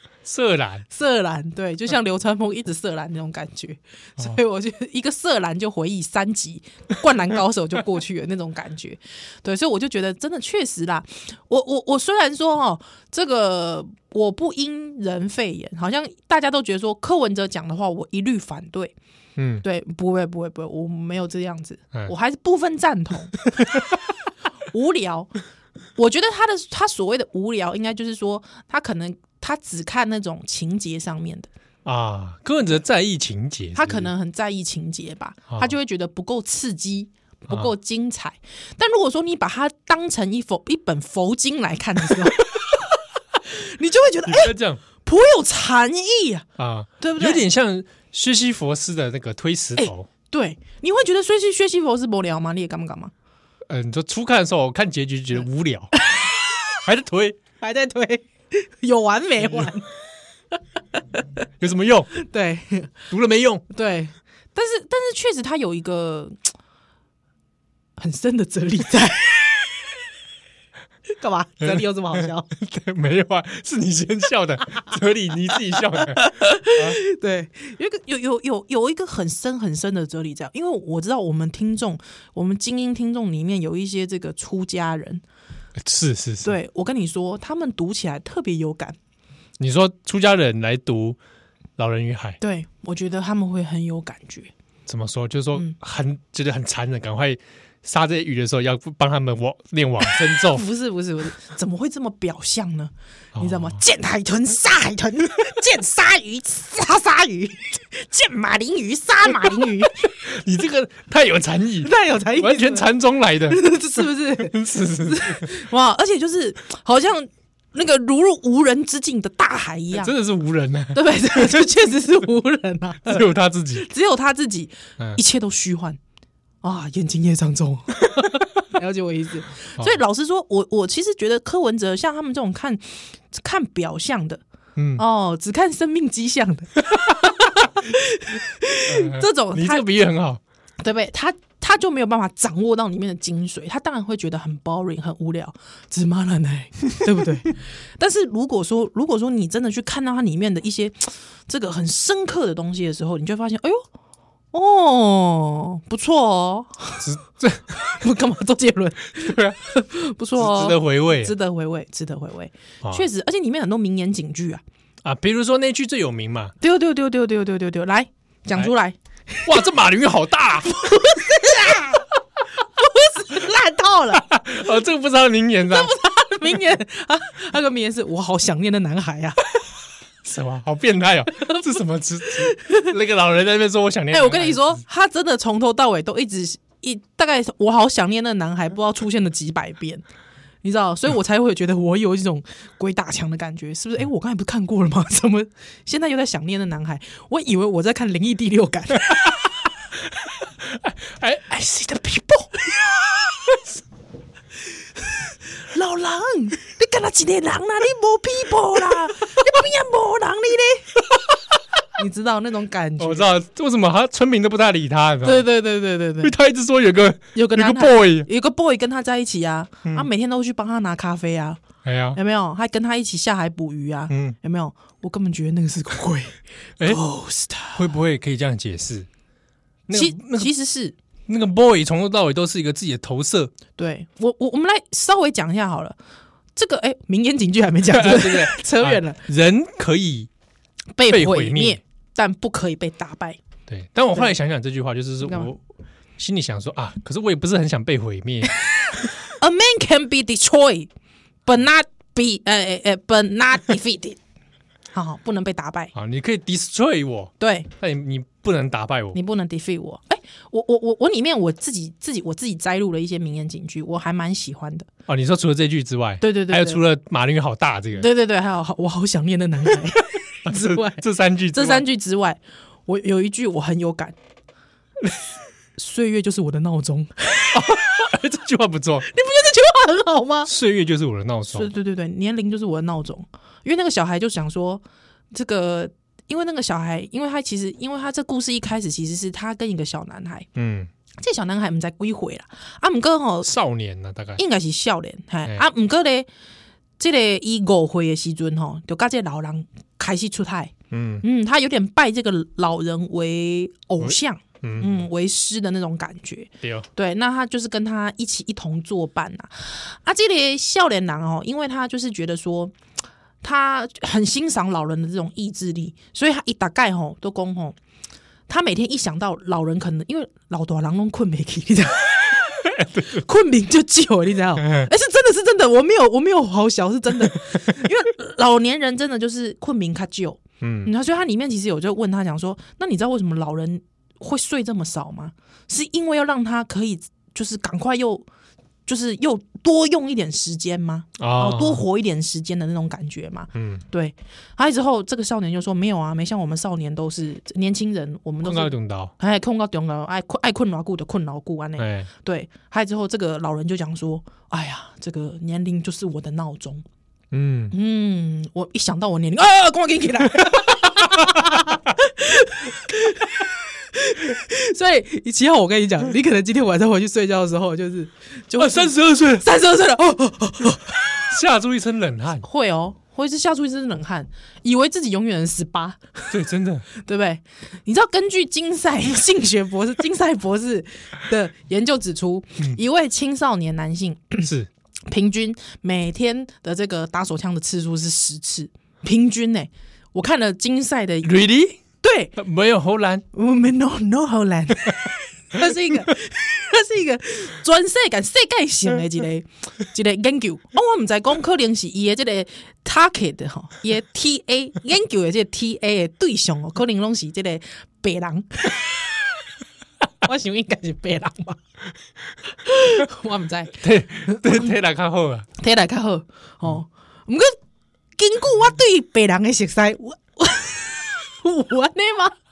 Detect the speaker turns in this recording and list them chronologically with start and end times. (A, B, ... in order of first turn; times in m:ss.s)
0:00.2-0:00.8 A
0:00.9-0:18.9 B
0:19.4-0:19.6 A
0:19.6-0:24.0 B
0:24.7-0:25.3 B
0:26.0-0:31.5 B
0:31.8-0:34.1 A
0:33.7-0:46.5 B
0:37.5-0:37.7 A
0:44.2-0:44.8 A
0:46.6-0:50.1 A
0:47.0-0:47.4 B
0:49.8-0:53.1 B
0:53.7-0:55.9 A
0:56.0-0:56.8 B
0:56.8-0:57.4 A
0:57.6-0:59.9 B
1:01.6-1:02.1 A
1:02.1-1:02.9 B
1:03.1-1:03.6 A
1:03.7-1:06.5 B
1:08.0-1:09.9 B
1:11.2-1:12.5 B
1:11.6-1:17.0 A
1:15.7-1:25.2 B
1:25.8-1:26.5 A
1:26.4-1:29.0 B
1:29.6-1:31.2 A
1:31.8-1:32.4 A
1:32.4-1:34.5 B
1:34.9-1:40.6 A
1:40.3-1:50.1 B
1:43.4-1:43.8 A
1:49.6-1:53.6 A
1:51.8-1:52.9 B
1:53.5-2:00.1 B
1:54.3-1:55.5 A
1:59.9-2:01.6 A
2:00.9-2:06.0 B
2:03.1-2:03.8 A
2:06.6-2:14.4 B
2:14.8-2:15.0 A
2:15.0-2:19.8 B
2:18.9-2:20.4 A
2:20.8-2:33.8 B
2:34.5-2:37.1 B
2:37.0-2:37.8 A
2:37.8-2:44.6 B
2:39.2-2:39.6 A
2:40.4-2:41.3 A
2:45.0-2:46.5 A
2:46.6-2:49.6 B
2:49.4-2:51.7 A
2:50.7-2:52.1 B
2:52.8-2:54.3 B
2:54.1-2:55.9 A
2:55.6-2:59.4 B
3:00.2-3:04.7 A
3:01.4-3:02.9 B
3:04.1-3:10.0 B
3:10.6-3:19.6 B
3:20.6-3:22.2 A
3:22.0-3:22.9 B
3:25.0-3:31.1 B
3:31.9-3:33.3 B
3:33.0-3:35.5 A
3:35.2-3:36.3 B
3:36.2-3:38.3 A
3:37.3-3:41.6 B
3:41.8-3:42.2 A
3:42.1-3:47.9 B
3:44.1-3:44.4 A
3:47.7-3:49.1 A
3:49.9-3:50.5 A
3:49.9-3:50.9 B
3:51.3-3:53.5 A
3:53.8-3:56.0 B
3:56.6-3:59.2 B
3:57.9-4:00.3 A
4:01.0-4:03.4 B
4:01.1-4:01.8 A
4:03.7-4:05.6 A
4:06.2-4:08.5 A
4:08.8-4:10.9 B
4:11.4-4:14.2 B
4:14.9-4:15.9 B
4:15.9-4:19.2 A
4:17.4-4:17.7 B
4:19.1-4:24.9 B
4:25.1-4:28.1 A
4:26.2-4:26.8 B
4:27.9-4:34.1 B
4:30.4-4:31.8 A
4:35.8-4:38.1 B
4:37.5-4:39.1 A
4:39.0-4:40.5 B
4:40.4-4:41.7 A
4:41.5-4:50.5 B
4:50.6-4:50.9 A
4:51.2-4:53.5 B
4:53.4-4:54.4 A
4:54.4-4:56.3 B
4:57.0-5:12.7 B
5:00.9-5:01.2 A
5:04.0-5:05.0 A
5:06.6-5:06.9 A
5:13.4-5:17.8 B
5:18.5-5:38.2 B
5:22.7-5:23.2 A
5:24.6-5:24.9 A
5:30.6-5:30.9 A
5:38.9-5:56.8 B
5:41.2-5:41.8 A
5:43.5-5:43.8 A
5:48.4-5:49.1 A
5:51.8-5:52.1 A
5:57.3-5:57.7 A
5:57.7-6:11.3 B
6:08.6-6:09.4 A
6:11.2-6:12.4 A
6:12.4-6:16.4 B
6:16.3-6:16.8 A
6:16.9-6:24.5 B
6:24.4-6:24.7 A
6:25.1-6:31.3 B
6:31.2-6:31.8 A
6:32.0-6:32.4 B
6:32.4-6:33.2 A
6:33.3-6:49.3 B
6:50.2-6:51.6 B
6:52.5-6:54.7 B
6:53.8-6:55.4 A
6:55.6-6:57.6 B
6:58.2-7:02.4 B